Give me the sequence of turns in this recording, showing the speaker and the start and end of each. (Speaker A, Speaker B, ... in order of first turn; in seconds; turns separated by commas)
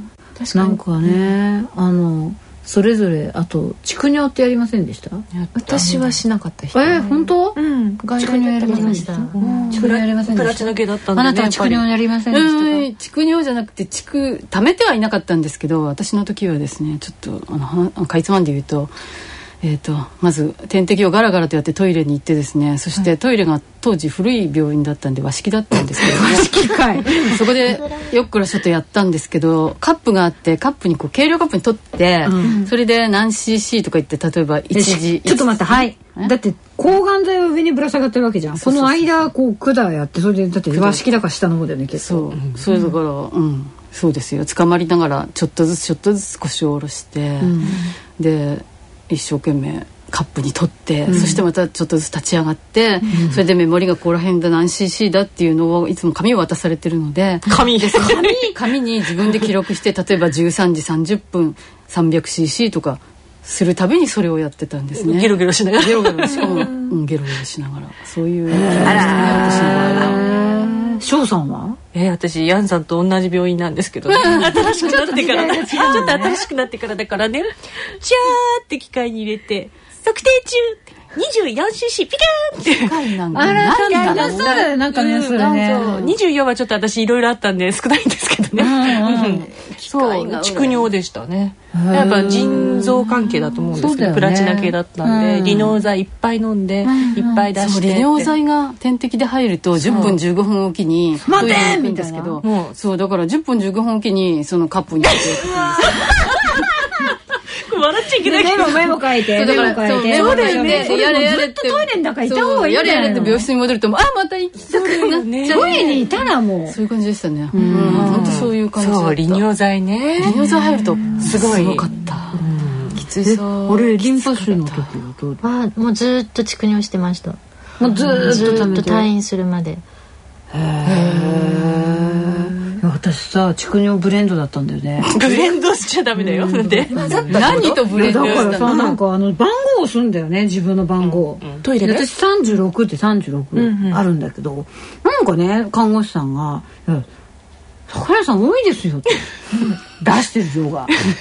Speaker A: 0.4-1.2, Speaker B: 0.5-5.2, Speaker C: 5.3-6.1, Speaker A: 5.5-9.8, Speaker B: 6.7-7.6, Speaker B: 8.1-12.9, Speaker D: 8.6-9.4, Speaker E: 9.6-11.9, Speaker C: 12.3-18.9, Speaker C: 19.6-36.3, Speaker B: 26.0-27.4, Speaker B: 32.2-32.7, Speaker B: 34.7-42.4, Speaker C: 38.5-39.3, Speaker C: 40.7-41.0, Speaker C: 42.0-70.2, Speaker B: 47.4-47.8, Speaker A: 47.7-47.9, Speaker B: 51.1-51.5, Speaker B: 53.1-53.4, Speaker E: 57.5-58.3, Speaker B: 57.9-58.8, Speaker E: 65.0-66.7, Speaker A: 66.3-66.9, Speaker B: 68.5-71.8, Speaker E: 69.0-70.2, Speaker E: 71.9-77.5, Speaker C: 74.2-74.4, Speaker B: 74.5-76.4, Speaker E: 78.0-98.3, Speaker C: 82.8-84.7, Speaker B: 83.3-86.1, Speaker B: 88.6-89.5, Speaker C: 89.8-90.8, Speaker B: 91.7-93.1, Speaker B: 93.7-95.8, Speaker B: 96.8-97.4, Speaker C: 97.6-106.0, Speaker E: 99.8-100.2, Speaker B: 101.2-102.4, Speaker E: 101.3-101.8, Speaker E: 102.4-102.8, Speaker E: 105.0-106.0, Speaker E: 107.7-111.4, Speaker B: 108.2-113.5, Speaker C: 109.3-116.1, Speaker E: 114.7-116.1, Speaker B: 115.4-116.8, Speaker C: 116.7-119.5, Speaker B: 117.5-118.4, Speaker E: 117.7-120.4, Speaker C: 120.2-122.4, Speaker E: 121.2-121.9, Speaker B: 122.4-125.4, Speaker A: 123.0-124.1, Speaker C: 124.2-124.9, Speaker D: 125.4-127.4, Speaker B: 127.8-129.1, Speaker D: 128.1-129.8, Speaker B: 130.5-135.3, Speaker E: 135.0-138.8, Speaker B: 136.3-147.1, Speaker C: 136.9-139.0, Speaker E: 141.4-142.1, Speaker A: 143.6-144.0, Speaker B: 147.9-151.0